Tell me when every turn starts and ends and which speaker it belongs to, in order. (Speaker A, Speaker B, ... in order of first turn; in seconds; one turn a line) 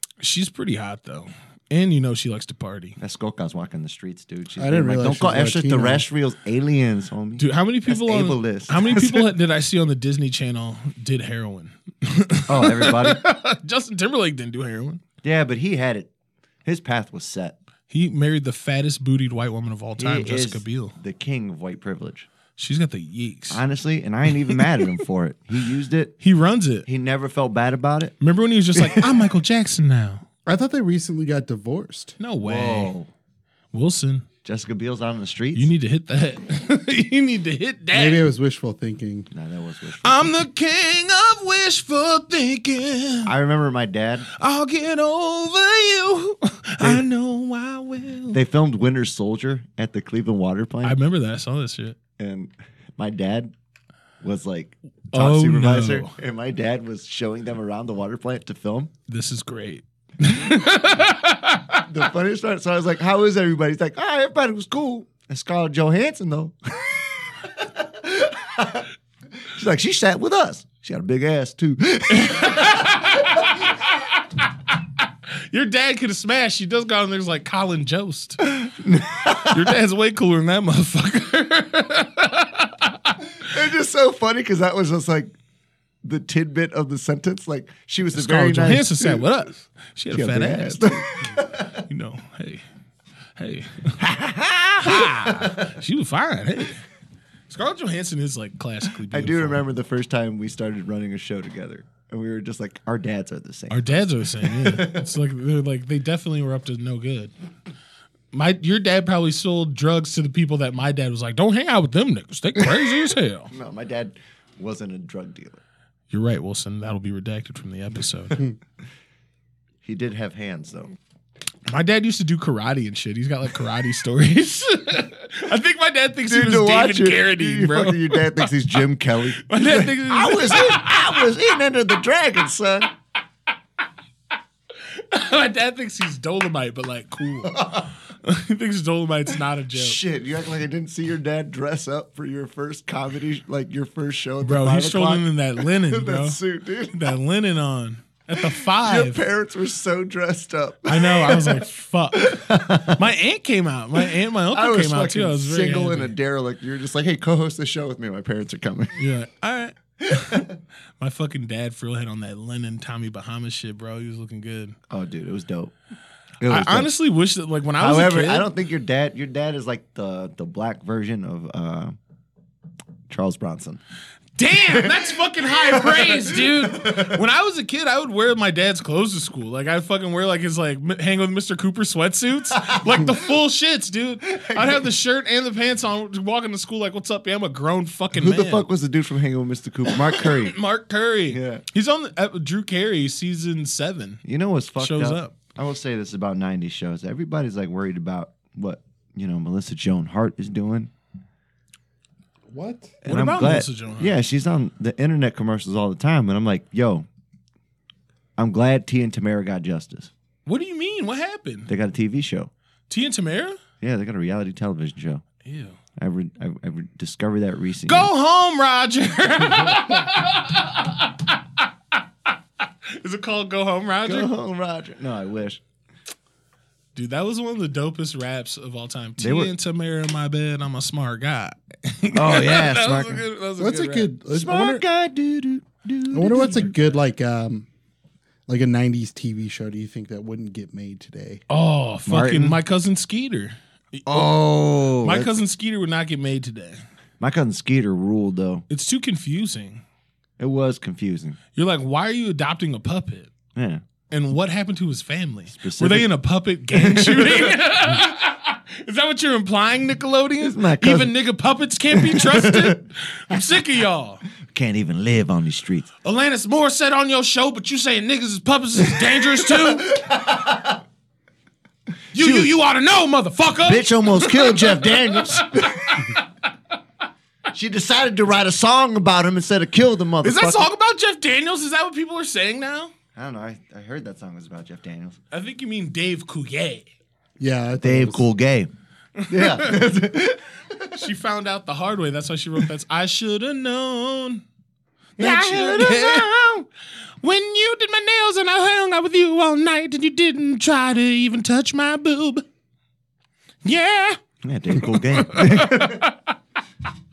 Speaker A: 0.2-3.0
Speaker B: 3.0-9.3
Speaker C: 4.6-6.0
Speaker A: 7.4-15.0
Speaker B: 12.5-13.2
Speaker B: 15.2-16.1
Speaker B: 16.6-17.6
Speaker A: 17.9-20.9
Speaker B: 20.0-22.3
Speaker A: 22.6-23.6
Speaker B: 23.5-26.1
Speaker A: 26.2-26.9
Speaker B: 26.8-28.1
Speaker A: 28.2-30.2
Speaker B: 28.7-29.1
Speaker C: 30.4-32.2
Speaker A: 32.2-32.9
Speaker B: 32.4-33.1
Speaker A: 33.7-34.3
Speaker B: 34.4-35.7
Speaker A: 35.5-38.2
Speaker C: 37.9-39.3
Speaker B: 39.3-40.3
Speaker A: 40.0-43.3
Speaker B: 43.2-44.3
Speaker A: 44.3-48.4
Speaker B: 48.3-51.0
Speaker A: 50.8-52.0
Speaker B: 52.2-53.5
Speaker B: 54.2-58.9
Speaker A: 55.1-56.1
Speaker A: 59.1-61.8
Speaker B: 61.9-68.9
Speaker B: 69.5-73.5
Speaker A: 72.1-74.2
Speaker A: 75.3-78.5
Speaker B: 78.4-79.8
Speaker A: 79.5-83.2
Speaker B: 83.4-85.3
Speaker B: 86.0-89.2
Speaker A: 88.1-91.0
Speaker B: 90.1-91.8
Speaker A: 91.7-92.6
Speaker A: 93.4-94.0
Speaker B: 94.0-95.7
Speaker A: 94.8-96.8
Speaker A: 97.5-99.6
Speaker B: 99.1-105.1
Speaker A: 103.7-107.3
Speaker A: 108.3-113.5
Speaker B: 113.5-115.6
Speaker A: 116.1-118.4
Speaker B: 119.8-120.9
Speaker A: 121.7-128.5
Speaker B: 126.2-132.9
Speaker A: 129.4-131.4
Speaker A: 134.9-140.0
Speaker B: 137.4-137.9
Speaker B: 139.7-147.1
Speaker A: 144.4-146.4
Speaker A: 146.9-149.2
Speaker B: 148.3-153.0
Speaker A: 150.8-156.2
Speaker B: 154.0-159.0
Speaker A: 158.9-164.8
Speaker B: 160.1-160.5
Speaker B: 164.9-165.7
Speaker B: 166.4-166.9
Speaker A: 166.4-168.5
Speaker B: 167.8-172.0
Speaker B: 173.1-173.8
Speaker A: 174.3-188.7
Speaker B: 174.5-177.2
Speaker B: 182.5-183.2
Speaker B: 184.3-184.8
Speaker B: 188.1-190.6
Speaker A: 189.9-194.2
Speaker B: 191.3-191.6
Speaker B: 194.2-200.9
Speaker A: 194.8-195.3
Speaker C: 202.5-203.0
Speaker B: 203.0-207.1
Speaker A: 203.0-204.2
Speaker B: 208.4-210.1
Speaker A: 210.4-211.7
Speaker B: 211.7-212.5
Speaker A: 212.9-213.6
Speaker B: 213.8-215.2
Speaker A: 215.4-215.8
Speaker B: 216.0-218.1
Speaker A: 217.8-221.6
Speaker A: 222.9-224.3
Speaker B: 224.0-225.6
Speaker A: 226.9-234.1
Speaker B: 229.2-229.5
Speaker B: 232.1-233.2
Speaker C: 233.6-234.8
Speaker B: 234.3-236.7
Speaker C: 236.1-237.7
Speaker C: 238.5-241.4
Speaker A: 241.5-244.4
Speaker B: 242.1-242.6
Speaker B: 244.1-245.4
Speaker A: 245.0-246.8
Speaker B: 247.2-248.7
Speaker A: 248.7-249.8
Speaker B: 250.4-251.4
Speaker A: 251.5-253.3
Speaker B: 253.5-253.8
Speaker A: 254.1-264.2
Speaker B: 255.5-256.1
Speaker B: 256.7-257.6
Speaker B: 260.4-261.1
Speaker B: 261.9-262.8
Speaker B: 264.5-265.9
Speaker A: 266.0-270.0
Speaker B: 269.0-270.8
Speaker B: 272.1-272.6
Speaker A: 272.1-276.2
Speaker B: 273.6-276.1
Speaker B: 277.5-280.7
Speaker A: 280.2-282.9
Speaker B: 283.1-285.2
Speaker A: 285.3-286.9
Speaker C: 287.4-288.2
Speaker B: 287.8-288.7
Speaker A: 289.2-289.9
Speaker B: 289.3-291.0
Speaker A: 290.9-294.4
Speaker B: 295.2-296.5
Speaker A: 295.2-296.6
Speaker A: 297.2-302.4
Speaker A: 303.6-304.2
Speaker B: 304.4-306.1
Speaker A: 304.8-306.3